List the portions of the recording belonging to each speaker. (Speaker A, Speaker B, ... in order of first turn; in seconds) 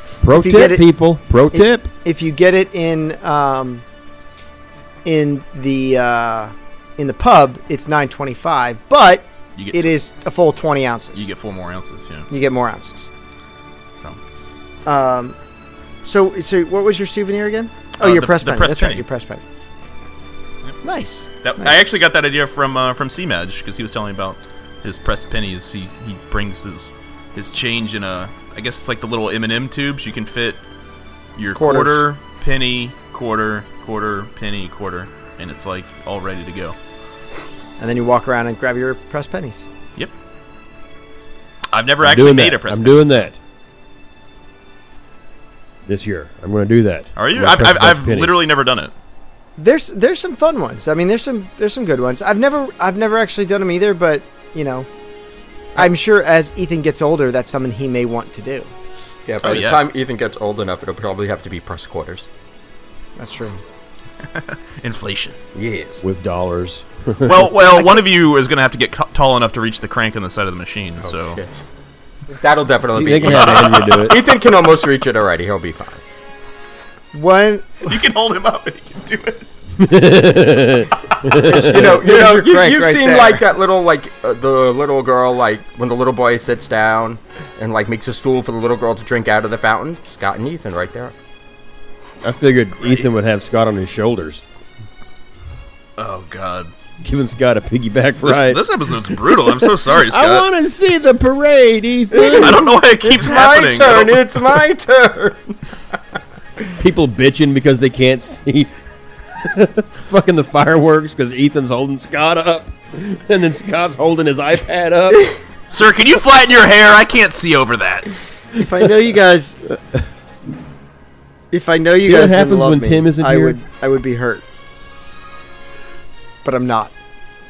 Speaker A: 0.2-1.9, 42.0-43.4, 45.9-48.4, 66.0-67.5, 72.9-74.3, 79.8-82.0, 92.2-94.4, 97.0-102.7, 106.8-108.7, 109.4-115.3, 122.0-123.6
Speaker B: 0.3-0.9, 1.5-3.8, 5.0-11.3, 12.3-13.1, 14.8-15.3, 16.0-19.4, 20.8-21.8, 31.6-32.1, 37.8-39.7, 49.6-54.9, 55.8-58.7, 63.2-63.6, 77.1-77.8, 81.3-83.4, 118.5-119.6, 121.5-124.4, 126.4-126.9
Speaker C: 9.6-9.9, 11.1-12.3, 18.0-19.0, 21.4-30.6, 31.4-36.7, 41.7-43.3, 47.1-48.9, 59.4-59.8, 64.3-65.3, 67.2-71.4, 73.2-74.1, 77.8-79.5, 92.8-93.1, 96.0-96.7, 98.2-100.5, 102.4-104.2, 115.7-118.1
Speaker D: 59.3-62.3, 65.5-66.0, 71.0-71.5, 72.3-76.0, 81.4-91.1, 102.1-105.6